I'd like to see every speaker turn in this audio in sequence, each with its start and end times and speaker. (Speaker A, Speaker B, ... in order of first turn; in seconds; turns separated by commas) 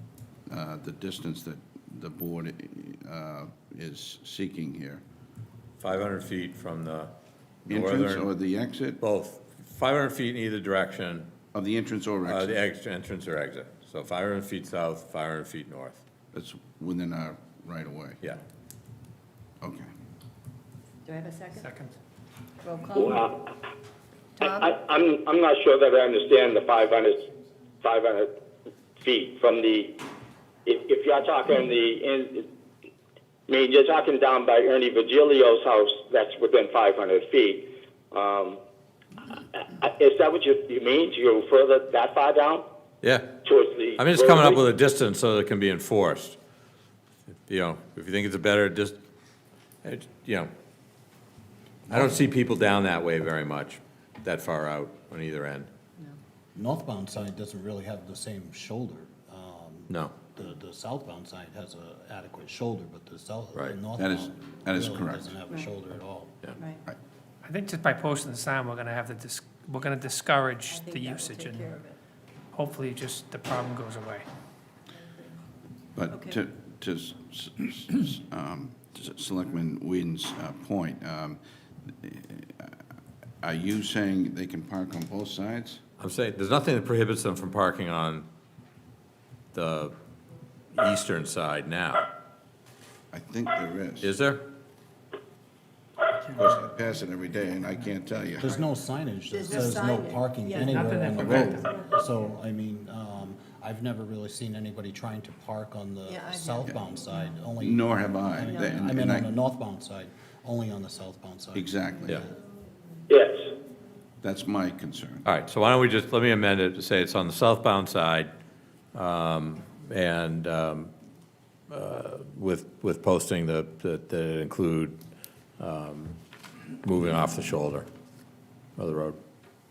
Speaker A: 0.5-5.0, Speaker B: 5.8-7.1, Speaker B: 7.7-8.3, Speaker A: 7.7-9.0, Speaker B: 9.0-11.3, Speaker A: 11.5-12.6, Speaker B: 12.3-16.0, Speaker A: 16.3-18.2, Speaker A: 19.6-19.9, Speaker C: 21.0-21.7, Speaker D: 21.5-22.0, Speaker C: 22.6-23.3, Speaker E: 23.0-23.4, Speaker C: 24.4-24.8, Speaker E: 24.4-27.3, Speaker E: 27.8-28.3, Speaker E: 29.0-29.9, Speaker E: 30.7-32.5, Speaker E: 33.5-38.6, Speaker E: 39.5-42.6, Speaker B: 43.0-43.3, Speaker E: 43.4-44.6, Speaker B: 44.0-46.4, Speaker B: 47.5-49.0, Speaker B: 49.8-50.5, Speaker B: 51.9-55.7, Speaker F: 56.5-66.4, Speaker B: 59.9-60.1, Speaker B: 63.5-63.8, Speaker A: 64.0-65.3, Speaker D: 67.4-71.7, Speaker C: 70.7-72.0, Speaker D: 72.5-74.3, Speaker A: 76.0-82.8, Speaker C: 76.1-76.4, Speaker A: 83.4-85.8, Speaker B: 86.0-88.3, Speaker B: 89.5-90.0, Speaker B: 90.7-92.1, Speaker A: 93.1-94.1, Speaker B: 94.0-94.5, Speaker A: 96.3-98.6, Speaker F: 98.4-112.3, Speaker C: 99.3-102.0, Speaker D: 100.5-101.8, Speaker A: 101.2-101.6, Speaker C: 106.1-107.5, Speaker A: 107.6-109.3, Speaker C: 108.4-108.8, Speaker A: 111.5-112.2, Speaker E: 113.1-113.5, Speaker A: 114.2-115.3, Speaker B: 115.2-118.3, Speaker B: 118.9-120.9, Speaker B: 121.7-125.0, Speaker B: 125.6-126.2, Speaker B: 126.8-127.9, Speaker B: 128.8-129.2